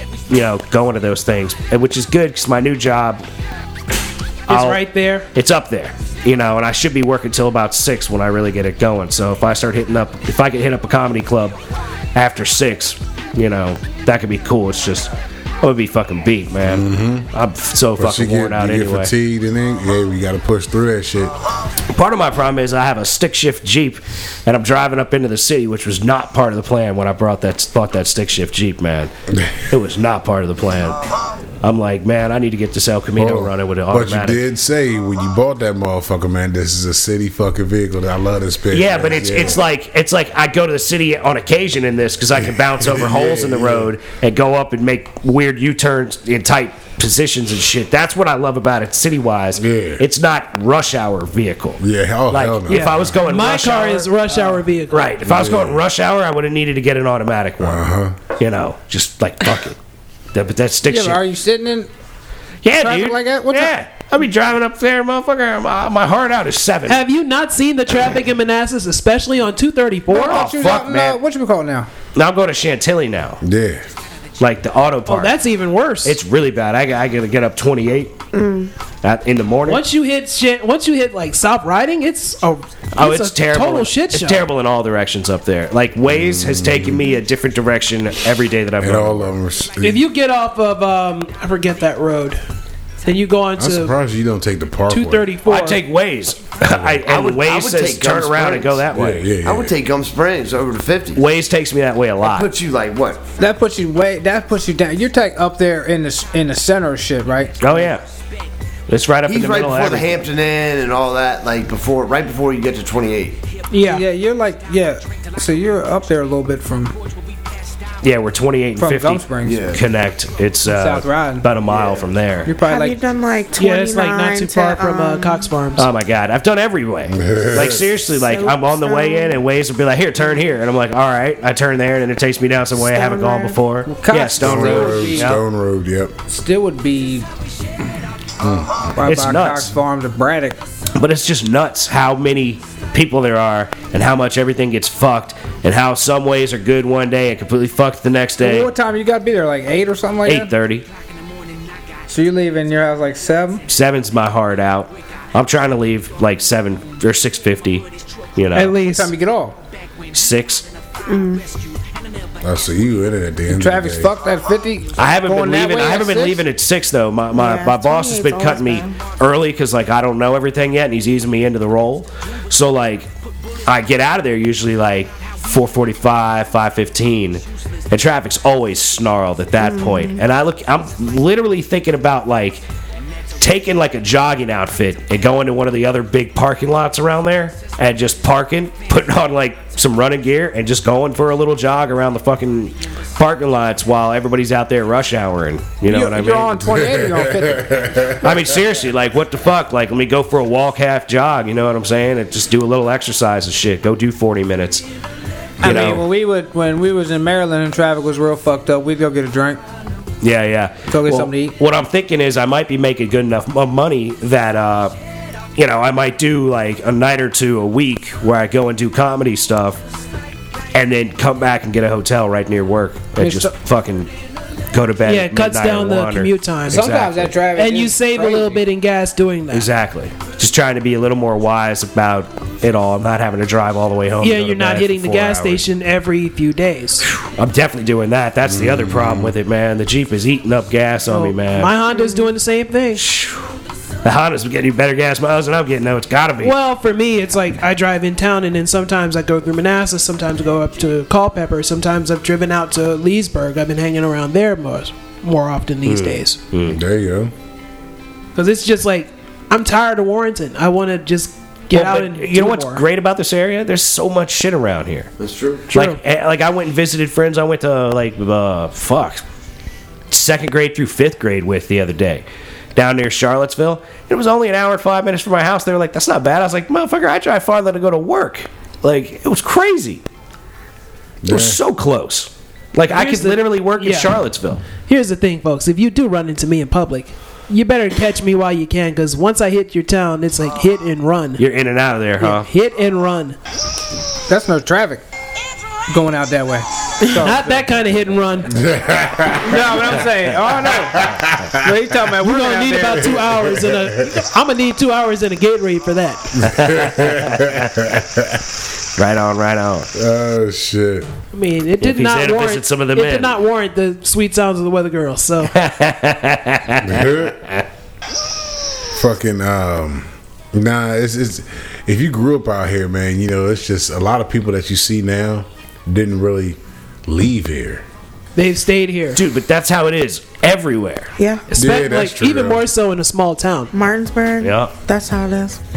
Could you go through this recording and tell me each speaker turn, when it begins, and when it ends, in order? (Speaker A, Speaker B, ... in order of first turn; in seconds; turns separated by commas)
Speaker A: 0.3-3.2, Speaker A: 4.5-4.8, Speaker B: 4.5-5.3, Speaker A: 5.3-11.6, Speaker A: 12.1-19.1, Speaker C: 16.6-17.3, Speaker C: 17.9-21.3, Speaker A: 21.9-29.1, Speaker C: 29.3-29.6, Speaker A: 29.7-31.0, Speaker A: 31.6-34.4, Speaker C: 33.1-39.6, Speaker A: 38.7-54.1, Speaker C: 42.3-43.9, Speaker C: 49.5-50.0, Speaker C: 51.8-53.2, Speaker B: 52.7-55.1, Speaker A: 54.9-57.9, Speaker C: 55.2-55.8, Speaker C: 57.6-58.2, Speaker A: 58.4-59.8, Speaker A: 60.3-61.2, Speaker D: 60.9-61.9, Speaker A: 62.6-67.0, Speaker D: 62.7-63.7, Speaker B: 66.9-70.4, Speaker D: 70.1-71.9, Speaker A: 70.1-71.2, Speaker A: 72.1-73.4, Speaker C: 73.4-73.9, Speaker A: 74.4-75.3, Speaker B: 75.1-76.2, Speaker A: 76.0-78.1, Speaker E: 78.3-78.7, Speaker A: 79.0-79.8, Speaker B: 79.7-84.5, Speaker A: 82.9-89.3, Speaker C: 86.0-87.0, Speaker C: 88.8-90.0, Speaker B: 89.8-92.4, Speaker B: 93.0-93.9, Speaker C: 93.6-95.3, Speaker B: 94.9-95.8, Speaker A: 95.5-99.2, Speaker C: 96.7-97.0, Speaker F: 97.0-98.9, Speaker C: 98.9-99.7, Speaker F: 99.4-101.2, Speaker A: 101.2-102.5, Speaker F: 102.2-103.3, Speaker D: 103.4-107.9, Speaker A: 107.6-108.0, Speaker A: 108.9-110.2, Speaker F: 109.2-113.4, Speaker B: 113.7-114.0, Speaker D: 113.8-117.0, Speaker A: 118.0-122.5, Speaker D: 118.8-119.7, Speaker F: 119.4-119.8, Speaker D: 120.6-121.5, Speaker F: 121.7-122.0, Speaker D: 122.5-123.0, Speaker E: 122.6-125.5, Speaker B: 123.5-125.8, Speaker A: 125.8-135.4, Speaker C: 127.1-127.9, Speaker E: 128.1-129.4, Speaker E: 132.8-133.6, Speaker D: 133.8-135.4, Speaker C: 134.4-136.1, Speaker D: 136.3-137.3, Speaker C: 138.4-138.9, Speaker D: 138.9-140.6, Speaker A: 139.0-139.7, Speaker A: 140.9-148.7, Speaker D: 148.4-150.5, Speaker A: 150.2-150.8, Speaker D: 152.1-153.6, Speaker A: 153.7-158.8, Speaker D: 158.5-159.6, Speaker B: 158.6-159.0, Speaker A: 160.1-160.7, Speaker E: 161.1-161.4, Speaker C: 162.4-164.1, Speaker D: 163.5-166.4, Speaker A: 164.9-173.1, Speaker E: 167.3-168.9, Speaker A: 173.7-182.6, Speaker E: 179.6-180.2, Speaker A: 183.4-196.6, Speaker D: 195.8-197.9, Speaker C: 196.6-198.7, Speaker A: 198.1-204.8, Speaker D: 205.6-209.6, Speaker A: 205.6-206.0, Speaker A: 210.2-214.9, Speaker D: 210.9-211.6, Speaker A: 215.6-219.8, Speaker A: 220.7-224.1, Speaker D: 223.2-223.5, Speaker A: 224.7-227.3, Speaker B: 225.0-226.9, Speaker D: 226.7-228.6, Speaker B: 227.5-229.7, Speaker A: 229.5-235.6, Speaker B: 234.2-237.1, Speaker A: 237.0-241.7, Speaker C: 238.4-239.3, Speaker B: 241.1-243.0, Speaker E: 241.9-242.3, Speaker A: 242.9-243.5, Speaker A: 244.0-246.5, Speaker B: 246.4-256.4, Speaker A: 255.8-256.8, Speaker C: 256.6-257.3, Speaker B: 258.3-262.8, Speaker A: 261.7-265.1, Speaker F: 265.2-265.6, Speaker A: 265.7-269.2, Speaker B: 265.7-266.0, Speaker A: 270.1-272.2, Speaker A: 272.8-280.0, Speaker C: 281.2-281.6, Speaker A: 281.3-284.6, Speaker B: 282.9-284.2, Speaker B: 284.7-291.4, Speaker A: 291.4-292.5, Speaker B: 292.2-293.4, Speaker D: 294.3-295.0, Speaker D: 295.9-297.6, Speaker B: 297.0-298.6, Speaker C: 298.5-300.0, Speaker D: 299.4-303.2, Speaker C: 300.9-301.8, Speaker B: 302.2-306.4, Speaker C: 303.2-304.2, Speaker C: 306.4-308.4, Speaker A: 306.4-308.0, Speaker A: 308.9-309.9, Speaker C: 309.9-311.1, Speaker B: 311.3-315.5, Speaker A: 311.8-313.3, Speaker A: 315.5-317.6, Speaker C: 316.8-317.4, Speaker C: 318.9-327.8, Speaker B: 328.3-329.2, Speaker A: 329.1-331.1, Speaker E: 331.2-331.4, Speaker B: 331.5-333.7, Speaker C: 331.5-332.6, Speaker E: 333.7-335.6, Speaker A: 334.4-334.7